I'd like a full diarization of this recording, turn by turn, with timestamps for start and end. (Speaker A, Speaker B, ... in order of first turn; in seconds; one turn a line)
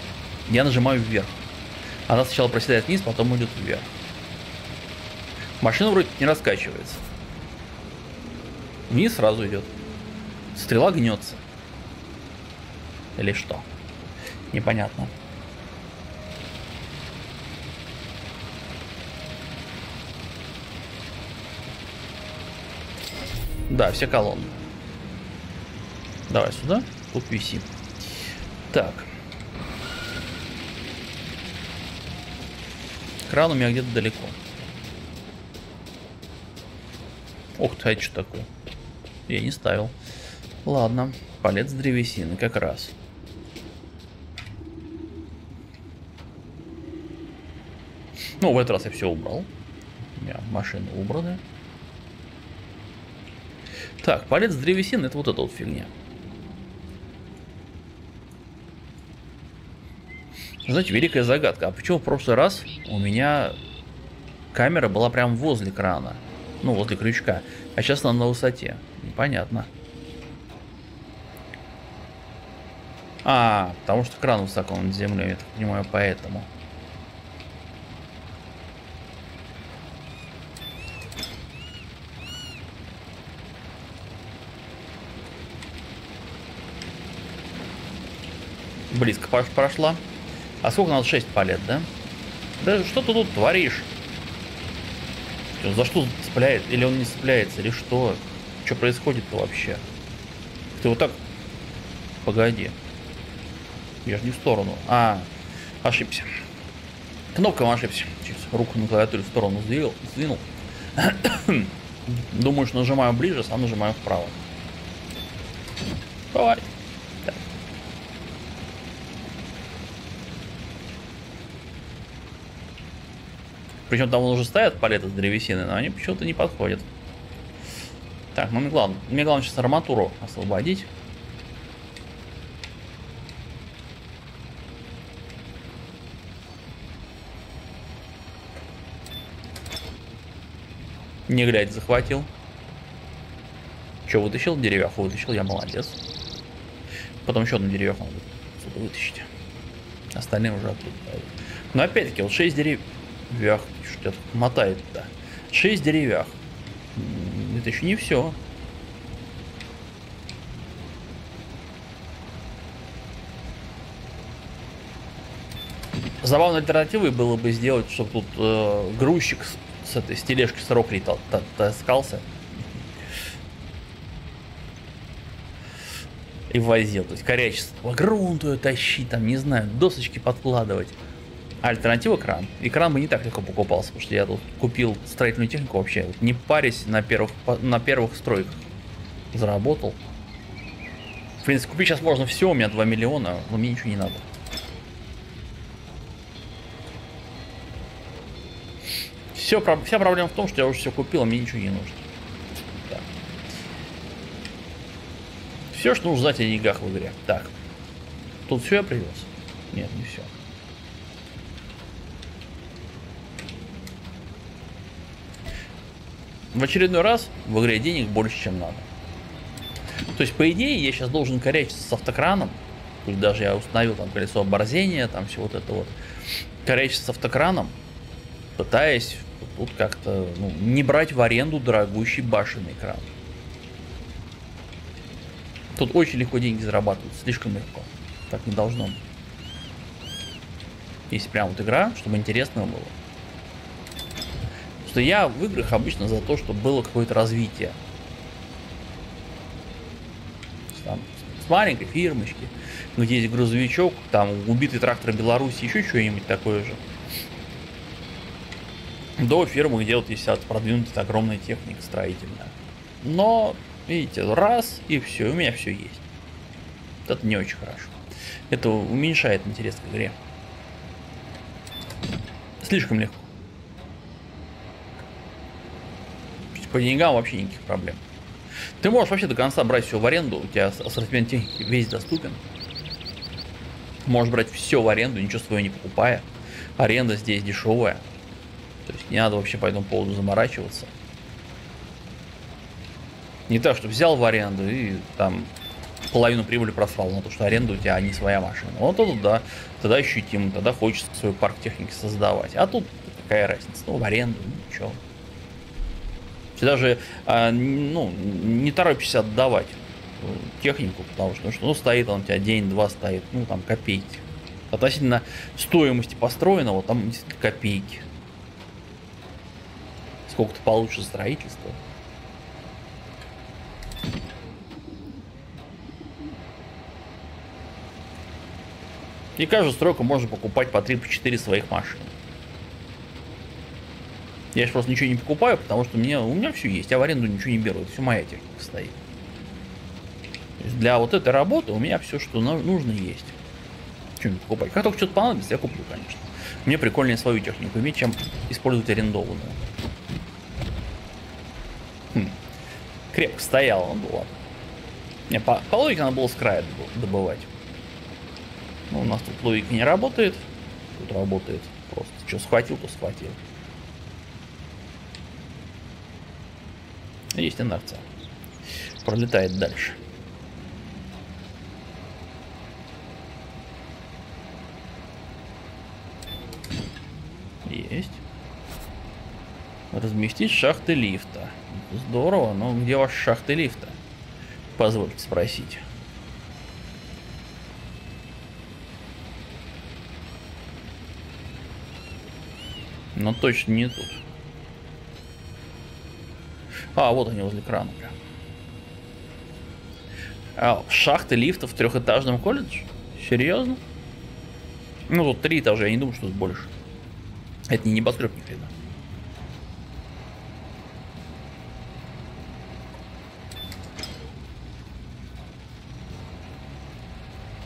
Speaker A: 0.5-1.4
Speaker A: 2.1-3.9
Speaker A: 5.6-7.0
Speaker A: 8.9-9.7
Speaker A: 10.5-11.4
Speaker A: 13.2-13.7
Speaker A: 14.5-15.1
Speaker A: 23.7-24.6
Speaker A: 26.3-27.7
Speaker A: 28.7-29.1
Speaker A: 33.3-34.4
Speaker A: 37.6-38.5
Speaker A: 39.3-39.9
Speaker A: 40.6-42.9
Speaker A: 48.4-49.5
Speaker A: 50.2-51.4
Speaker A: 54.0-55.9
Speaker A: 60.6-63.6
Speaker A: 64.5-69.7
Speaker A: 73.2-76.5
Speaker A: 88.9-90.0
Speaker A: 90.6-91.9
Speaker A: 92.6-93.9
Speaker A: 95.6-99.8
Speaker A: 100.8-101.2
Speaker A: 102.2-102.8
Speaker A: 104.0-105.3
Speaker A: 105.8-106.3
Speaker A: 107.3-114.4
Speaker A: 116.3-116.7
Speaker A: 123.9-126.9
Speaker A: 128.3-130.9
Speaker A: 141.3-142.3
Speaker A: 144.1-146.0
Speaker A: 147.2-149.3
Speaker A: 150.1-156.4
Speaker A: 156.9-158.4
Speaker A: 166.2-172.9
Speaker A: 176.5-181.0
Speaker A: 181.6-188.6
Speaker A: 189.3-190.0
Speaker A: 191.4-194.2
Speaker A: 199.3-202.1
Speaker A: 202.8-203.1
Speaker A: 205.7-207.5
Speaker A: 208.5-210.3
Speaker A: 216.5-218.9
Speaker A: 220.2-225.9
Speaker A: 226.6-227.8
Speaker A: 228.6-233.1
Speaker A: 235.8-239.0
Speaker A: 241.1-242.9
Speaker A: 244.8-247.8
Speaker A: 250.7-256.8
Speaker A: 259.2-266.0
Speaker A: 267.1-267.9
Speaker A: 268.5-270.2
Speaker A: 272.6-273.3
Speaker A: 276.5-278.0
Speaker A: 278.8-282.4
Speaker A: 284.1-288.1
Speaker A: 288.9-290.9
Speaker A: 293.5-295.5
Speaker A: 296.1-305.0
Speaker A: 306.6-318.1
Speaker A: 320.3-321.8
Speaker A: 329.4-332.1
Speaker A: 334.5-339.0
Speaker A: 340.6-343.4
Speaker A: 344.2-349.6
Speaker A: 353.1-354.4
Speaker A: 355.3-357.5
Speaker A: 358.9-363.4
Speaker A: 367.3-368.1
Speaker A: 369.0-370.0
Speaker A: 377.6-378.2
Speaker A: 379.9-384.0
Speaker A: 384.8-385.8
Speaker A: 393.1-394.2
Speaker A: 396.9-398.2
Speaker A: 400.6-403.8
Speaker A: 405.1-406.7
Speaker A: 407.7-408.7